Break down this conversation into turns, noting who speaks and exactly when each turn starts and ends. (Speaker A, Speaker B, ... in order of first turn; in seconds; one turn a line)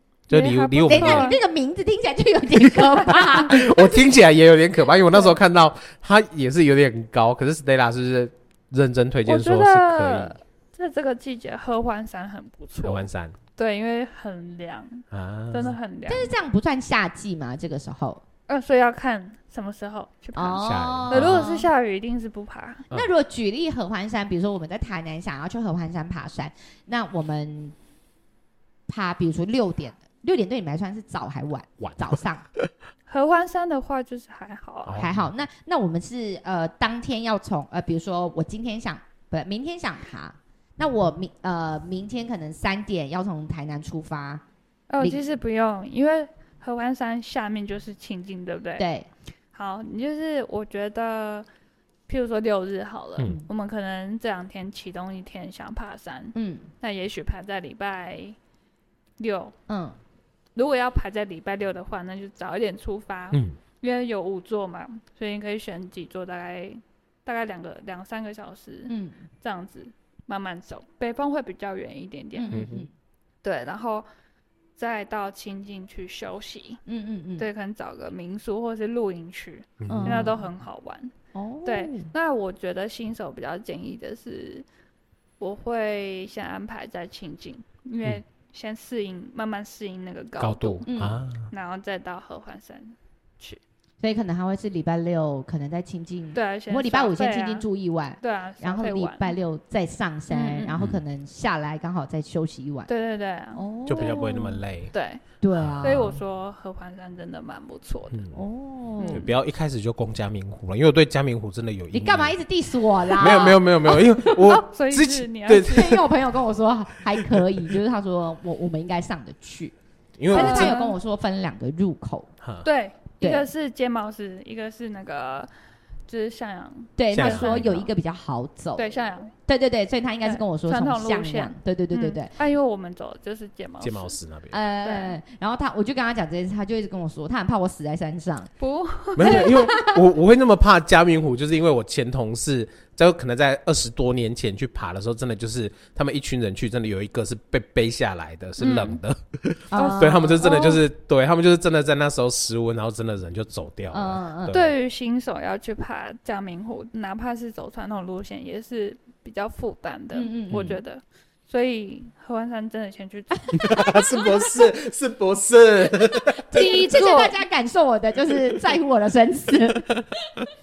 Speaker A: 0.3-1.3
Speaker B: 0.3-1.4
Speaker C: 0.9-4.1
Speaker A: 2.7-10.3
Speaker B: 9.2-16.3
Speaker A: 12.8-13.3
Speaker A: 15.1-15.7
Speaker C: 16.1-18.2
Speaker B: 18.5-22.9
Speaker C: 20.3-21.7
Speaker A: 20.6-21.5
Speaker C: 22.9-27.7
Speaker C: 28.9-32.5
Speaker A: 31.8-32.7
Speaker B: 33.1-35.0
Speaker A: 34.9-35.3
Speaker C: 35.0-44.4
Speaker B: 44.9-48.9
Speaker C: 48.8-49.1
Speaker B: 49.5-51.5
Speaker B: 52.1-58.4
Speaker C: 56.3-56.7
Speaker B: 59.2-59.5
Speaker C: 59.7-60.0
Speaker B: 60.5-72.6
Speaker C: 68.9-69.2
Speaker C: 72.3-72.9
Speaker A: 72.5-72.9
Speaker B: 73.4-74.0
Speaker B: 74.8-76.8
Speaker C: 76.9-77.5
Speaker B: 77.4-81.1
Speaker A: 79.8-80.3
Speaker C: 79.9-80.4
Speaker C: 81.3-82.1
Speaker B: 81.6-84.7
Speaker B: 85.4-90.9
Speaker A: 90.4-91.5
Speaker C: 90.9-91.2
Speaker B: 91.5-93.6
Speaker C: 94.0-102.9
Speaker B: 96.3-97.7
Speaker B: 98.2-99.3
Speaker B: 100.3-100.8
Speaker A: 100.7-101.0
Speaker B: 102.9-105.2
Speaker C: 103.5-104.6
Speaker A: 103.9-104.9
Speaker C: 105.4-106.2
Speaker A: 105.5-106.0
Speaker B: 105.8-108.2
Speaker A: 108.1-108.4
Speaker C: 108.3-109.3
Speaker B: 109.0-109.3
Speaker A: 109.1-112.3
Speaker C: 111.9-114.6
Speaker A: 113.1-116.1
Speaker B: 114.3-116.0
Speaker C: 115.5-119.7
Speaker A: 117.1-117.7
Speaker A: 120.2-120.8
Speaker C: 120.3-122.3
Speaker B: 120.3-120.9
Speaker A: 122.4-122.7
Speaker B: 122.6-125.5
Speaker C: 123.2-123.5
Speaker B: 126.1-127.9
Speaker C: 127.0-132.3
Speaker A: 127.1-127.9
Speaker B: 128.7-129.3
Speaker B: 130.2-134.2
Speaker A: 133.8-134.6
Speaker C: 134.5-138.5
Speaker B: 134.8-135.2
Speaker B: 138.6-139.8
Speaker A: 139.2-154.7
Speaker C: 139.2-140.0
Speaker B: 148.6-149.0
Speaker C: 149.7-150.6
Speaker B: 149.7-150.8
Speaker C: 153.9-154.6
Speaker B: 154.5-164.2
Speaker C: 160.1-160.7
Speaker A: 160.5-160.8
Speaker A: 163.5-166.7
Speaker C: 163.6-164.7
Speaker C: 165.9-170.0
Speaker B: 166.5-167.4